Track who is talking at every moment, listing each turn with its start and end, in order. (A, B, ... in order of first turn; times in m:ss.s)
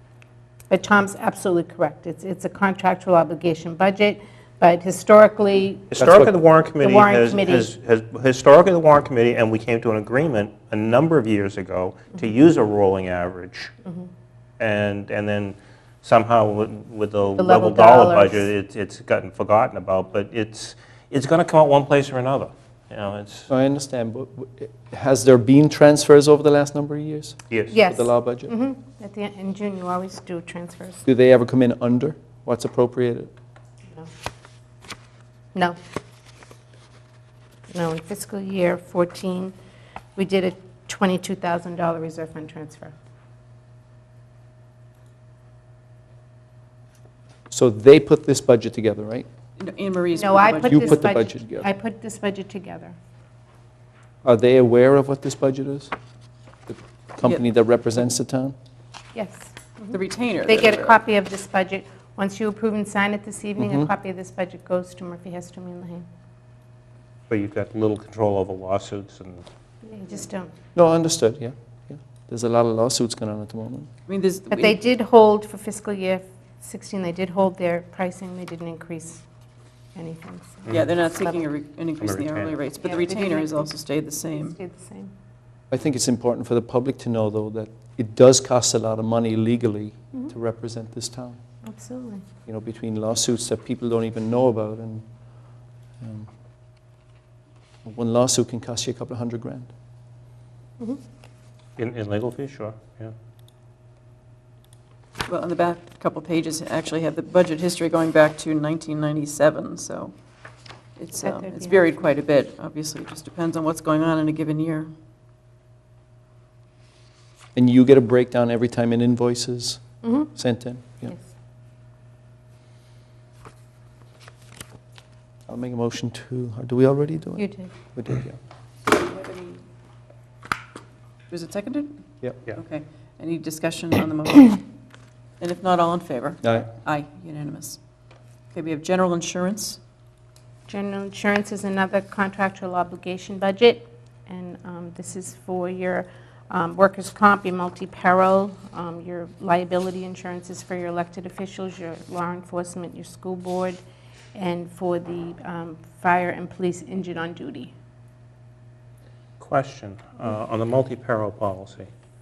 0:00.7-0:06.0 A
0:05.9-0:13.7 B
0:06.0-0:06.3 C
0:06.8-0:07.7 A
0:14.6-0:23.5 B
0:17.4-0:18.5 A
0:23.5-0:28.5 C
0:27.7-0:31.0 A
0:31.0-0:33.3 C
0:37.7-0:39.5 A
0:40.2-0:43.0 A
0:47.5-0:49.3 C
0:49.6-0:51.1 D
0:50.2-0:53.0 A
0:50.6-0:51.7 C
0:54.2-0:55.9 C
0:56.7-0:58.6 C
0:59.2-1:06.0 A
0:59.9-1:01.0 D
1:03.6-1:03.9 C
1:07.3-1:09.5 B
1:09.8-1:10.5 A
1:10.8-1:13.9 C
1:14.1-1:14.8 D
1:14.5-1:19.2 A
1:20.0-1:21.4 A
1:20.7-1:20.9 B
1:20.7-1:24.6 D
1:22.0-1:22.6 B
1:22.8-1:23.7 A
1:24.4-1:25.1 A
1:25.7-1:31.4 C
1:31.6-1:32.2 A
1:32.5-1:35.0 C
1:36.0-1:36.3 C
1:37.8-1:39.7 C
1:41.8-1:43.1 B
1:45.3-1:50.1 D
1:51.0-1:54.9 D
1:51.2-1:51.8 A
1:57.6-2:01.2 C
2:00.0-2:00.3 A
2:05.5-2:08.4 C
2:07.4-2:07.7 A
2:08.9-2:09.6 D
2:11.3-2:11.9 D
2:12.5-2:14.6 D
2:15.4-2:17.8 D
2:16.4-2:16.7 C
2:18.5-2:19.8 D
2:20.7-2:33.8 A
2:34.4-2:37.7 A
2:39.4-2:41.9 B